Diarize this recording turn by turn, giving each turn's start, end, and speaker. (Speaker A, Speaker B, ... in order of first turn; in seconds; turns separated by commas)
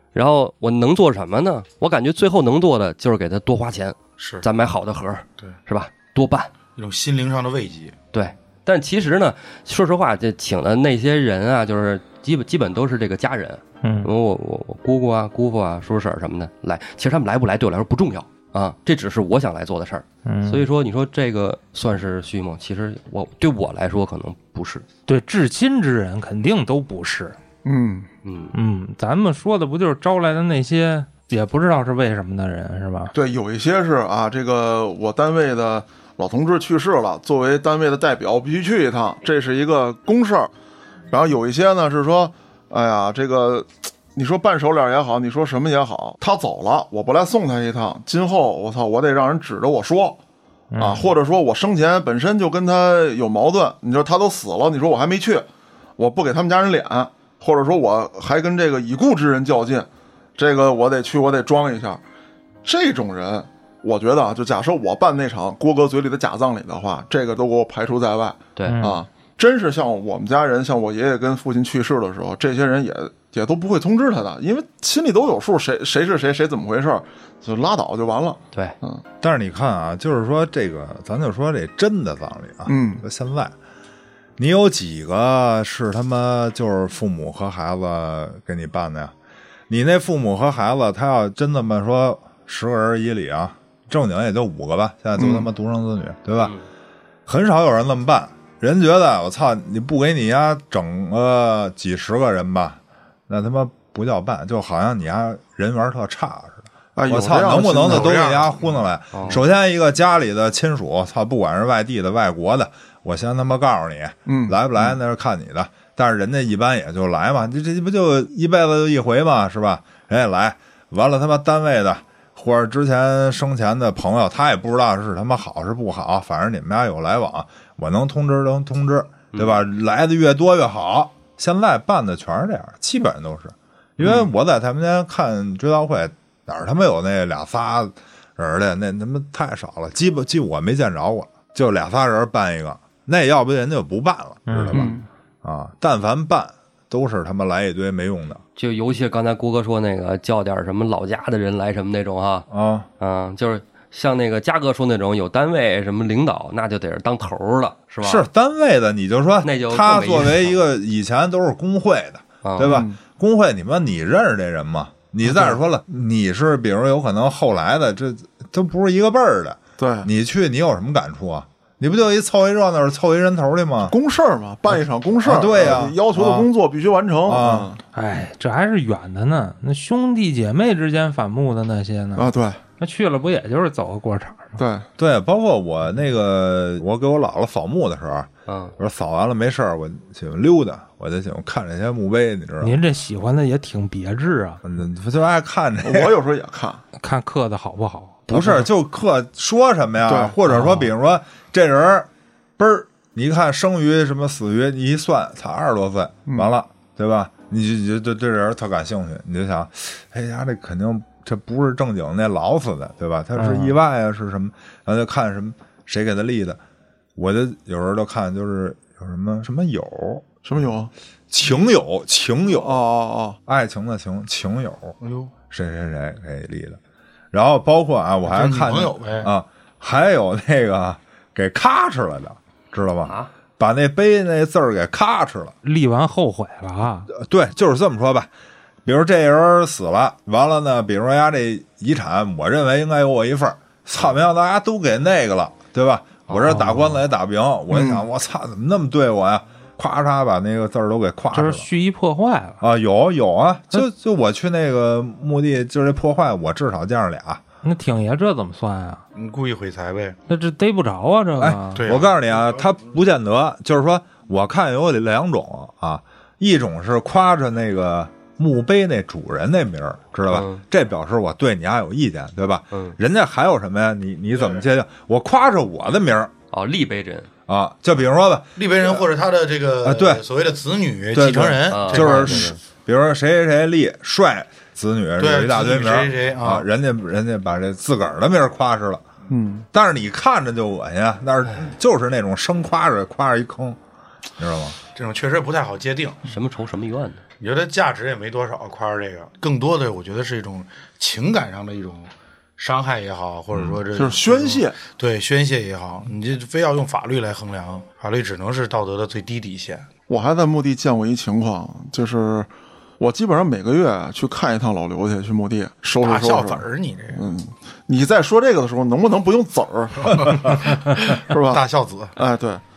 Speaker A: 0.1-6.5, Speaker B: 4.2-4.5, Speaker B: 6.8-7.9, Speaker A: 8.1-24.9, Speaker C: 13.8-14.1, Speaker C: 20.2-20.7, Speaker C: 25.1-27.4, Speaker D: 27.6-28.1, Speaker A: 28.2-28.5, Speaker C: 28.5-33.1, Speaker D: 33.1-40.5, Speaker D: 41.1-50.2, Speaker C: 50.7-51.1, Speaker D: 50.8-55.5, Speaker D: 56.0-62.0, Speaker D: 62.6-79.0, Speaker C: 68.7-69.0, Speaker E: 79.2-83.5, Speaker D: 82.7-83.0, Speaker E: 84.4-89.1, Speaker E: 89.7-96.6, Speaker D: 95.2-95.5, Speaker E: 97.2-148.4, Speaker D: 107.0-108.2, Speaker B: 107.8-108.8, Speaker A: 109.1-109.4, Speaker D: 114.3-114.9, Speaker A: 129.3-129.6, Speaker C: 144.5-145.0, Speaker D: 144.7-145.0, Speaker A: 148.6-152.5, Speaker E: 152.5-152.9, Speaker A: 153.0-158.2, Speaker E: 158.0-173.9, Speaker A: 159.4-160.6, Speaker A: 162.4-162.8, Speaker D: 162.6-163.0, Speaker D: 169.8-170.1, Speaker D: 173.8-177.8, Speaker E: 175.2-176.5, Speaker E: 177.2-177.7, Speaker C: 177.9-184.6, Speaker D: 182.2-182.6, Speaker D: 184.6-184.8, Speaker E: 185.0-192.8, Speaker A: 188.5-188.7, Speaker C: 192.6-194.6, Speaker E: 194.6-196.1, Speaker D: 195.8-196.8, Speaker C: 197.0-198.7, Speaker E: 198.3-216.6, Speaker D: 200.1-200.3, Speaker C: 200.4-200.9, Speaker D: 206.2-206.5, Speaker C: 213.3-213.8, Speaker E: 217.2-220.2, Speaker D: 220.4-220.9, Speaker E: 221.3-222.8, Speaker D: 222.6-223.4, Speaker E: 223.4-224.9, Speaker B: 225.0-225.3, Speaker E: 225.5-226.8, Speaker E: 227.3-235.5, Speaker B: 228.2-229.3, Speaker C: 235.6-237.1, Speaker E: 237.1-238.3, Speaker E: 238.8-251.7, Speaker C: 246.4-247.0, Speaker D: 247.7-248.0, Speaker C: 251.3-252.6, Speaker E: 252.6-257.4, Speaker C: 257.6-259.1, Speaker B: 259.1-260.2, Speaker C: 260.3-261.8, Speaker E: 261.4-276.3, Speaker B: 261.8-262.2, Speaker A: 270.3-270.6, Speaker A: 276.5-277.3, Speaker E: 277.5-279.0, Speaker B: 278.6-282.6, Speaker E: 279.8-280.2, Speaker E: 281.1-289.0, Speaker A: 281.7-282.5, Speaker B: 285.2-286.6, Speaker D: 289.3-289.6, Speaker E: 289.7-293.8, Speaker E: 294.4-294.8, Speaker B: 294.9-296.2, Speaker A: 296.2-297.2, Speaker B: 297.4-309.9, Speaker D: 303.9-304.8, Speaker D: 310.1-320.6, Speaker B: 316.0-317.2, Speaker B: 320.4-322.1, Speaker D: 321.2-321.6, Speaker D: 322.1-322.6